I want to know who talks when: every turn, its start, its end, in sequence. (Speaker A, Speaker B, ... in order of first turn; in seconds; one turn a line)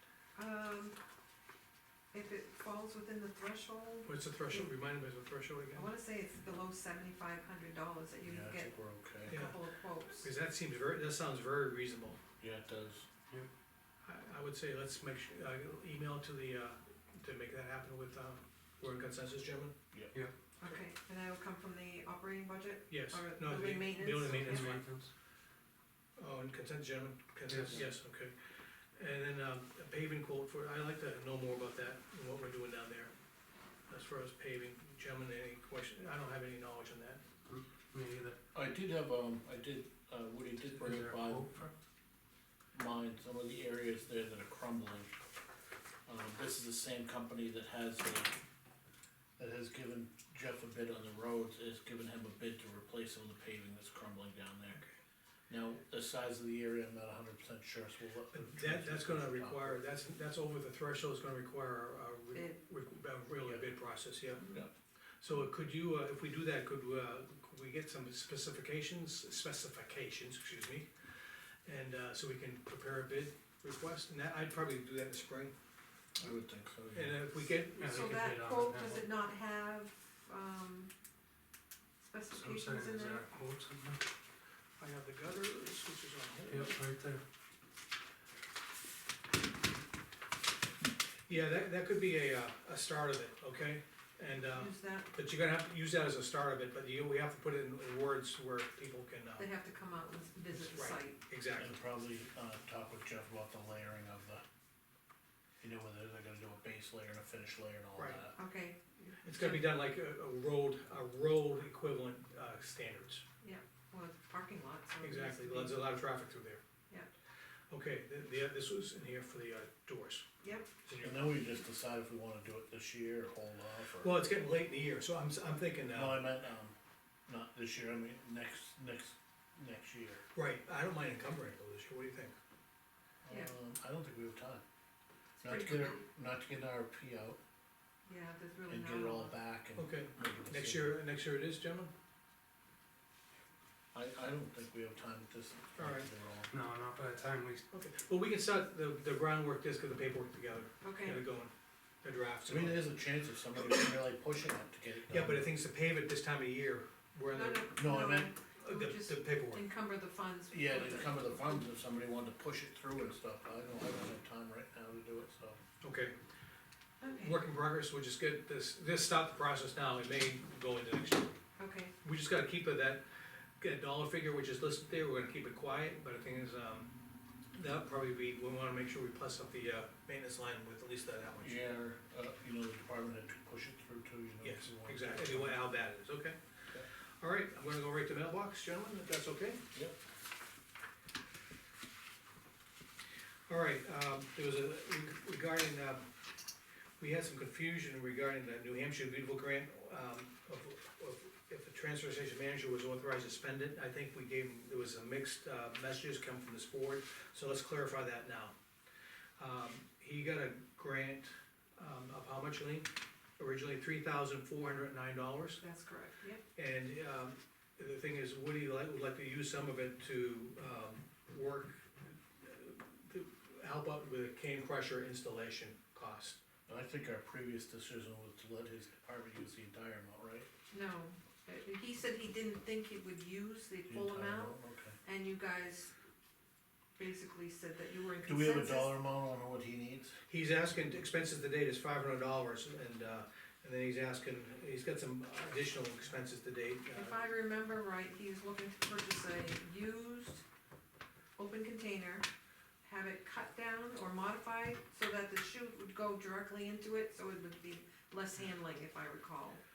Speaker A: 0.3-1.0
Speaker A: 2.1-4.7
Speaker B: 4.0-5.9
Speaker A: 5.7-10.3
Speaker C: 8.2-9.4
Speaker B: 9.3-9.6
Speaker B: 10.1-12.2
Speaker C: 12.4-13.1
Speaker B: 14.0-19.7
Speaker A: 20.6-24.7
Speaker B: 22.9-24.8
Speaker D: 24.2-25.1
Speaker B: 26.2-28.3
Speaker D: 27.5-27.8
Speaker B: 29.0-33.1
Speaker B: 33.9-37.2
Speaker D: 37.5-38.4
Speaker C: 38.5-41.5
Speaker D: 40.7-41.7
Speaker C: 42.7-45.1
Speaker C: 46.0-48.3
Speaker C: 49.4-54.8
Speaker C: 55.5-59.8
Speaker B: 58.3-64.5
Speaker A: 62.3-62.6
Speaker C: 64.4-64.7
Speaker B: 65.2-70.9
Speaker B: 71.6-75.5
Speaker C: 76.2-77.2
Speaker B: 76.9-78.1
Speaker D: 77.8-79.1
Speaker A: 77.8-80.9
Speaker A: 82.0-83.3
Speaker D: 82.3-84.0
Speaker B: 84.8-86.8
Speaker D: 86.5-87.2
Speaker B: 91.3-99.5
Speaker A: 94.5-95.1
Speaker A: 99.4-101.2
Speaker B: 100.5-101.8
Speaker C: 101.6-104.4
Speaker C: 105.6-108.3
Speaker B: 107.9-108.2
Speaker A: 108.4-109.8
Speaker B: 109.2-113.2
Speaker A: 113.4-115.8
Speaker B: 115.0-116.6
Speaker B: 117.7-120.2
Speaker A: 120.4-120.7
Speaker B: 120.8-121.4
Speaker C: 121.0-124.2
Speaker B: 124.0-126.2
Speaker C: 125.9-126.8
Speaker C: 127.3-130.2
Speaker B: 130.3-132.3
Speaker C: 133.2-134.6
Speaker A: 135.4-136.0
Speaker C: 135.4-137.4
Speaker A: 138.1-139.3
Speaker C: 138.7-141.0
Speaker B: 139.8-141.9
Speaker C: 143.9-146.5
Speaker B: 145.8-146.1
Speaker D: 146.5-147.6
Speaker B: 147.7-151.5
Speaker A: 150.8-151.2
Speaker B: 152.0-152.9
Speaker C: 152.4-155.5
Speaker B: 155.1-157.8
Speaker A: 157.3-161.6
Speaker C: 157.8-158.3
Speaker B: 158.6-159.6
Speaker C: 160.5-165.6
Speaker B: 165.8-166.2
Speaker A: 167.0-167.4
Speaker B: 167.2-171.3
Speaker A: 171.6-171.9
Speaker B: 172.0-173.0
Speaker B: 173.6-176.9
Speaker B: 177.5-181.6
Speaker C: 181.4-185.6
Speaker B: 184.4-186.4
Speaker B: 187.2-189.6
Speaker B: 193.5-196.1
Speaker B: 197.0-208.5
Speaker B: 209.4-215.6
Speaker A: 215.6-216.4
Speaker B: 216.6-226.4
Speaker C: 226.7-230.5
Speaker A: 230.7-235.9
Speaker C: 233.9-235.0
Speaker A: 237.0-239.0
Speaker C: 238.2-240.2
Speaker B: 240.3-247.2
Speaker A: 246.9-250.4
Speaker A: 251.4-252.3
Speaker A: 252.8-259.6